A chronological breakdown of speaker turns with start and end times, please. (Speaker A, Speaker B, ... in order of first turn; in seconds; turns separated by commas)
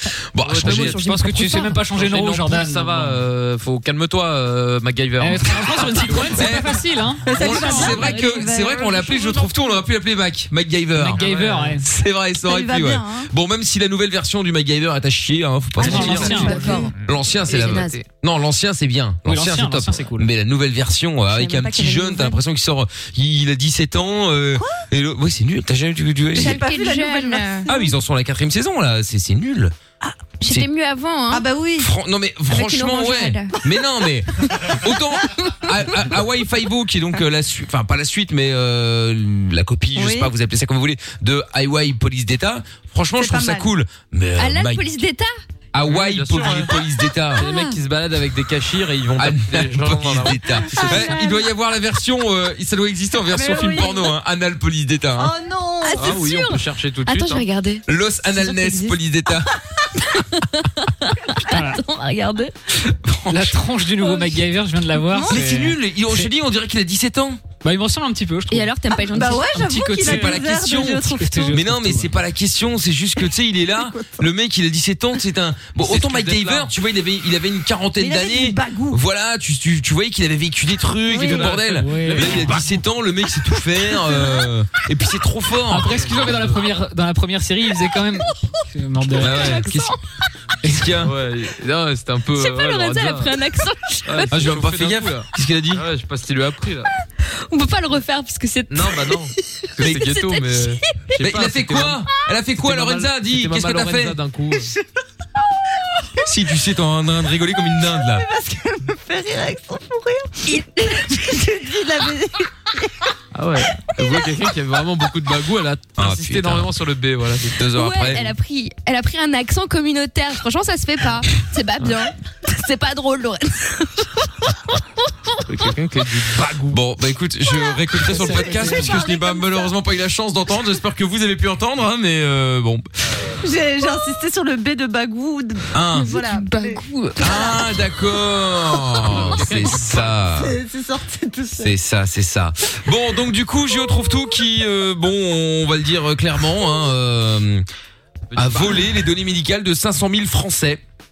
Speaker A: 0.3-1.0, Speaker B: 0.4-6.6, Speaker C: 0.6-1.7, Speaker D: 0.8-3.2, Speaker D: 5.2-8.1, Speaker A: 6.3-11.2, Speaker E: 7.2-9.5, Speaker C: 7.8-8.7, Speaker B: 11.0-11.8, Speaker D: 11.1-11.8, Speaker A: 11.8-16.5, Speaker E: 12.4-13.3, Speaker D: 15.8-16.9, Speaker B: 15.8-16.8, Speaker E: 15.9-16.9, Speaker C: 16.2-16.9, Speaker A: 17.0-26.6, Speaker C: 17.5-18.0, Speaker B: 17.6-18.0, Speaker D: 19.2-20.3, Speaker E: 21.3-22.4, Speaker E: 24.6-24.8, Speaker E: 26.3-27.9, Speaker C: 26.4-27.7, Speaker A: 27.7-29.7, Speaker E: 30.0-30.3, Speaker C: 30.4-31.4, Speaker E: 31.3-31.9, Speaker A: 31.8-44.9, Speaker C: 32.5-33.5, Speaker E: 40.0-40.3, Speaker E: 43.1-43.7, Speaker C: 44.4-45.3, Speaker A: 45.7-47.5, Speaker B: 45.8-46.8, Speaker B: 47.3-51.1, Speaker C: 47.4-47.8, Speaker A: 49.2-55.3, Speaker C: 50.7-51.4, Speaker E: 53.3-54.1, Speaker E: 55.1-56.1, Speaker C: 55.8-59.0, Speaker B: 56.0-57.4, Speaker A: 57.9-59.5, Speaker C: 60.0-62.5, Speaker D: 61.5-61.8, Speaker A: 62.9-63.6, Speaker D: 63.3-65.8, Speaker C: 65.1-65.3, Speaker A: 65.2-67.4, Speaker D: 67.6-68.7, Speaker C: 68.5-69.7, Speaker E: 69.0-71.7, Speaker D: 69.5-70.4, Speaker A: 69.9-86.1, Speaker D: 71.1-72.1, Speaker E: 73.8-74.2, Speaker B: 75.8-76.7, Speaker E: 78.0-79.0, Speaker B: 81.2-82.4, Speaker D: 81.5-82.6, Speaker D: 85.7-89.7, Speaker B: 86.0-86.6, Speaker A: 89.2-89.9, Speaker C: 89.2-90.0, Speaker A: 90.6-91.1, Speaker B: 91.0-93.3, Speaker C: 92.4-94.4, Speaker B: 94.0-96.9, Speaker A: 94.3-95.8, Speaker C: 97.5-100.9, Speaker B: 98.7-102.0, Speaker A: 101.2-104.2, Speaker B: 102.6-104.7, Speaker A: 106.2-108.2, Speaker E: 108.0-112.9, Speaker B: 113.3-117.6, Speaker A: 116.0-116.7, Speaker A: 117.5-118.3, Speaker C: 117.7-124.3, Speaker B: 125.4-126.8, Speaker A: 126.7-132.8, Speaker E: 128.1-129.7, Speaker E: 133.4-137.6, Speaker A: 135.7-136.1, Speaker C: 135.9-137.6, Speaker A: 137.2-140.6, Speaker B: 139.0-140.2, Speaker E: 140.3-141.7, Speaker A: 141.6-147.7, Speaker B: 148.3-148.9, Speaker A: 148.3-150.8